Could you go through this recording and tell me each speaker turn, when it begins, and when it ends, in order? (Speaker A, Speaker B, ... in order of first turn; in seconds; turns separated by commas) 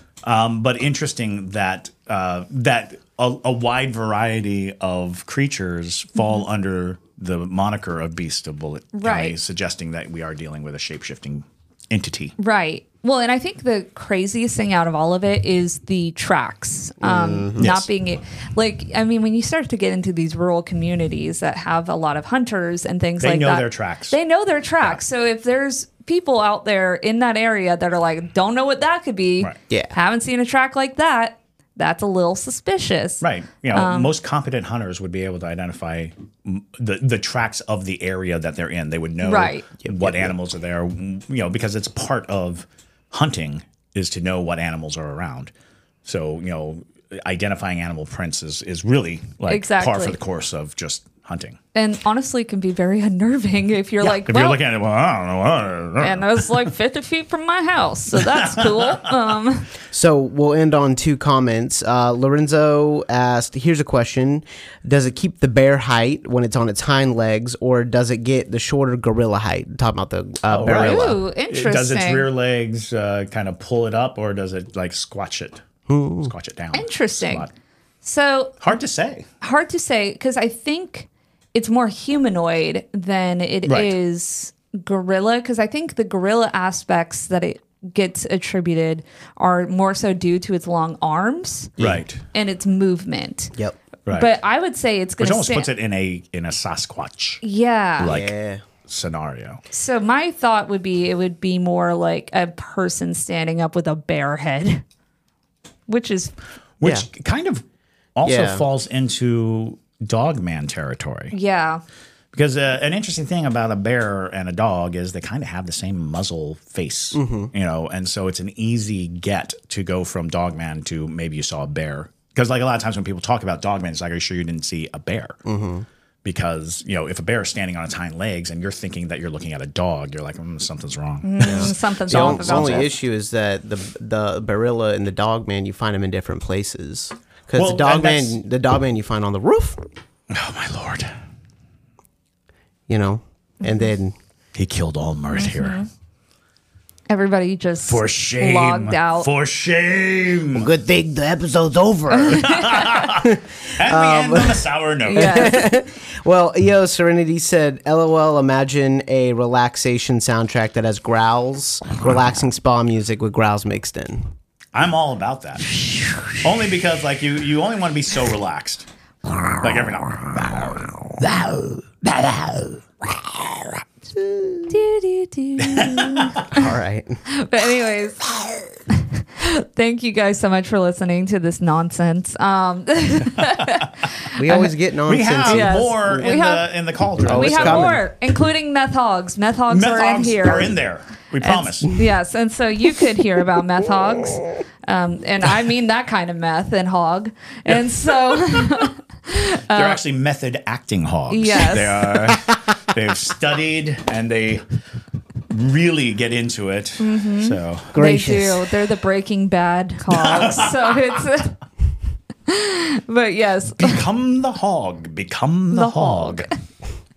Speaker A: 0.2-12.3, Speaker B: 6.2-6.4, Speaker B: 9.0-9.4, Speaker B: 12.4-34.1, Speaker C: 17.0-17.7, Speaker A: 17.6-17.9, Speaker A: 23.2-24.2, Speaker C: 29.7-29.9, Speaker A: 33.2-45.5, Speaker B: 39.2-39.7, Speaker C: 39.8-40.3, Speaker A: 46.0-51.6, Speaker B: 49.5-50.2, Speaker B: 51.8-54.6, Speaker A: 54.0-56.4, Speaker B: 56.0-59.7, Speaker A: 58.2-59.1, Speaker C: 59.9-71.2, Speaker A: 70.5-75.6, Speaker B: 70.7-72.3, Speaker C: 75.9-76.3, Speaker A: 76.2-77.5, Speaker B: 76.7-77.5, Speaker B: 78.0-78.6, Speaker A: 78.6-79.3, Speaker B: 79.4-93.5, Speaker A: 83.7-84.0, Speaker A: 91.8-92.2, Speaker A: 94.1-94.3, Speaker B: 94.1-95.7, Speaker A: 95.2-97.4, Speaker B: 97.4-98.1, Speaker A: 98.0-98.3, Speaker C: 98.1-98.6, Speaker A: 98.9-99.6, Speaker B: 99.7-104.8, Speaker B: 105.9-106.3, Speaker A: 106.8-107.6, Speaker A: 108.2-111.3, Speaker C: 108.2-108.7, Speaker B: 111.3-111.8, Speaker A: 112.3-125.4, Speaker C: 117.1-117.5, Speaker C: 125.5-125.9, Speaker A: 126.2-132.9, Speaker B: 131.2-132.9, Speaker C: 131.4-139.8, Speaker A: 137.5-138.4, Speaker A: 140.3-141.1, Speaker C: 142.9-144.2, Speaker A: 144.6-145.8, Speaker B: 145.3-145.9, Speaker B: 147.1-149.3, Speaker A: 147.9-150.7, Speaker C: 150.5-164.2, Speaker B: 152.1-153.1, Speaker A: 152.3-155.6, Speaker B: 155.0-155.7, Speaker A: 164.7-165.8, Speaker A: 166.3-168.9, Speaker A: 169.5-171.3, Speaker A: 172.0-172.8, Speaker C: 174.1-174.8, Speaker B: 174.7-176.4, Speaker A: 175.6-176.7, Speaker C: 176.5-177.2, Speaker B: 177.3-178.4, Speaker B: 178.9-184.7, Speaker C: 184.3-186.4, Speaker A: 185.1-188.0, Speaker B: 185.5-186.7, Speaker C: 187.2-188.0, Speaker B: 187.3-190.7, Speaker A: 189.7-192.0, Speaker B: 191.4-200.0, Speaker A: 198.3-198.7, Speaker A: 199.7-204.7, Speaker B: 201.3-202.2, Speaker A: 205.5-208.0, Speaker B: 207.0-211.6, Speaker C: 207.9-208.7, Speaker A: 210.1-211.2, Speaker B: 212.5-214.0, Speaker A: 213.8-216.5, Speaker B: 215.7-216.5